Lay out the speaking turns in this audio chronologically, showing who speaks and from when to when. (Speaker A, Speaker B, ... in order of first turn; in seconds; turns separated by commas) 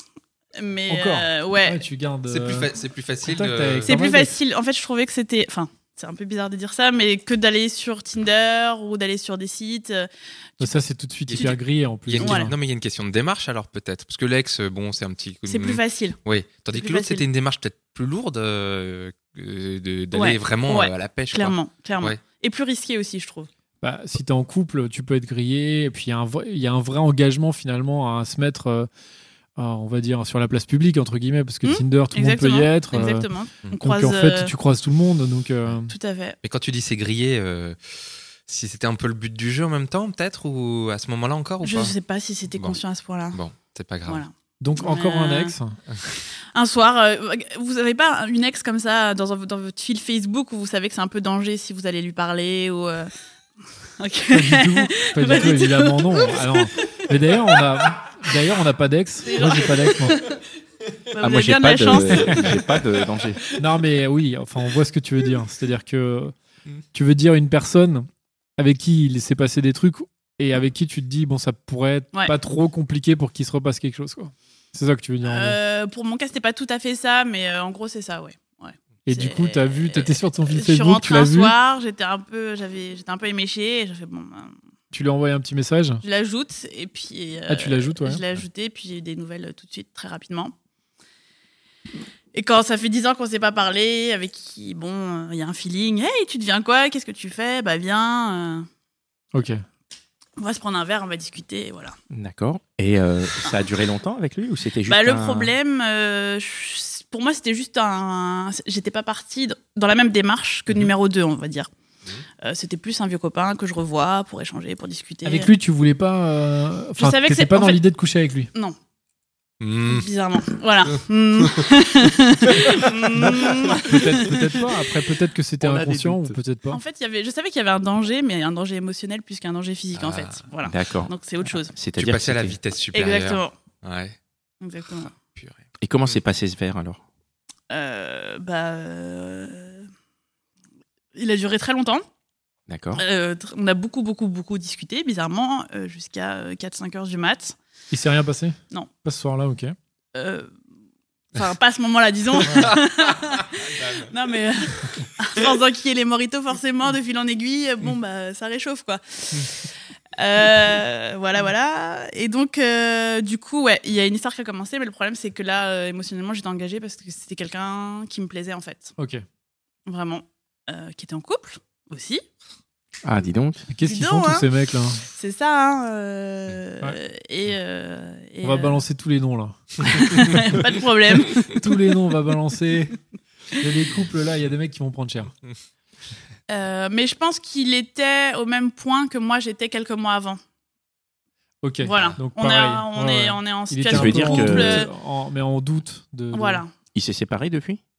Speaker A: 0.6-1.8, Speaker B: 0.9-2.7, Speaker C: 2.3-3.9, Speaker B: 3.2-4.3, Speaker A: 3.9-10.7, Speaker B: 10.6-12.5, Speaker C: 11.3-11.6, Speaker C: 12.1-22.2, Speaker A: 12.2-12.5, Speaker A: 15.5-16.2, Speaker A: 16.7-17.2, Speaker A: 20.1-23.5, Speaker B: 23.8-28.9, Speaker B: 29.6-33.3, Speaker A: 31.6-34.5, Speaker B: 33.8-35.9, Speaker A: 35.9-36.4, Speaker C: 36.4-37.8, Speaker C: 38.5-41.9, Speaker A: 41.6-43.4, Speaker C: 43.3-44.2, Speaker A: 44.1-45.5, Speaker B: 44.6-45.8, Speaker A: 46.5-53.1, Speaker A: 54.0-56.5, Speaker B: 54.3-60.2, Speaker A: 59.2-60.4, Speaker A: 61.1-62.5, Speaker D: 61.2-63.4, Speaker B: 62.1-62.4, Speaker B: 63.5-66.3, Speaker B: 66.9-75.6, Speaker A: 75.2-84.5, Speaker B: 79.0-81.5, Speaker B: 84.9-86.0, Speaker A: 86.0-90.5, Speaker B: 87.5-88.2, Speaker A: 92.3-98.7, Speaker B: 99.3-99.6, Speaker A: 100.4-102.0, Speaker D: 102.1-105.5, Speaker A: 104.8-111.7, Speaker A: 112.4-115.5, Speaker B: 115.2-118.5, Speaker A: 117.0-117.8, Speaker C: 119.6-120.1, Speaker A: 119.9-124.5, Speaker C: 120.8-121.7, Speaker C: 122.5-122.9, Speaker B: 123.1-126.8, Speaker D: 125.6-126.2, Speaker A: 126.7-131.7, Speaker C: 129.9-130.4, Speaker D: 130.6-131.1, Speaker D: 131.7-132.6, Speaker C: 131.9-134.2, Speaker A: 132.9-133.5, Speaker A: 134.6-135.1, Speaker C: 135.1-136.1, Speaker D: 135.8-137.0, Speaker A: 137.7-139.9, Speaker A: 141.1-142.0, Speaker D: 142.7-143.0, Speaker A: 142.9-147.6, Speaker B: 147.9-149.7, Speaker A: 150.1-150.5, Speaker A: 151.3-168.9, Speaker C: 152.5-154.1, Speaker B: 169.0-169.2, Speaker A: 169.9-172.2, Speaker D: 173.0-173.7, Speaker B: 173.7-175.0, Speaker A: 173.8-174.5, Speaker A: 175.1-178.8, Speaker B: 178.4-180.5, Speaker A: 179.8-181.8, Speaker B: 181.4-183.0, Speaker B: 183.6-185.3, Speaker A: 186.5-190.4, Speaker B: 191.6-196.6, Speaker A: 191.8-194.9, Speaker D: 193.9-194.8, Speaker A: 196.3-196.7, Speaker D: 196.9-197.8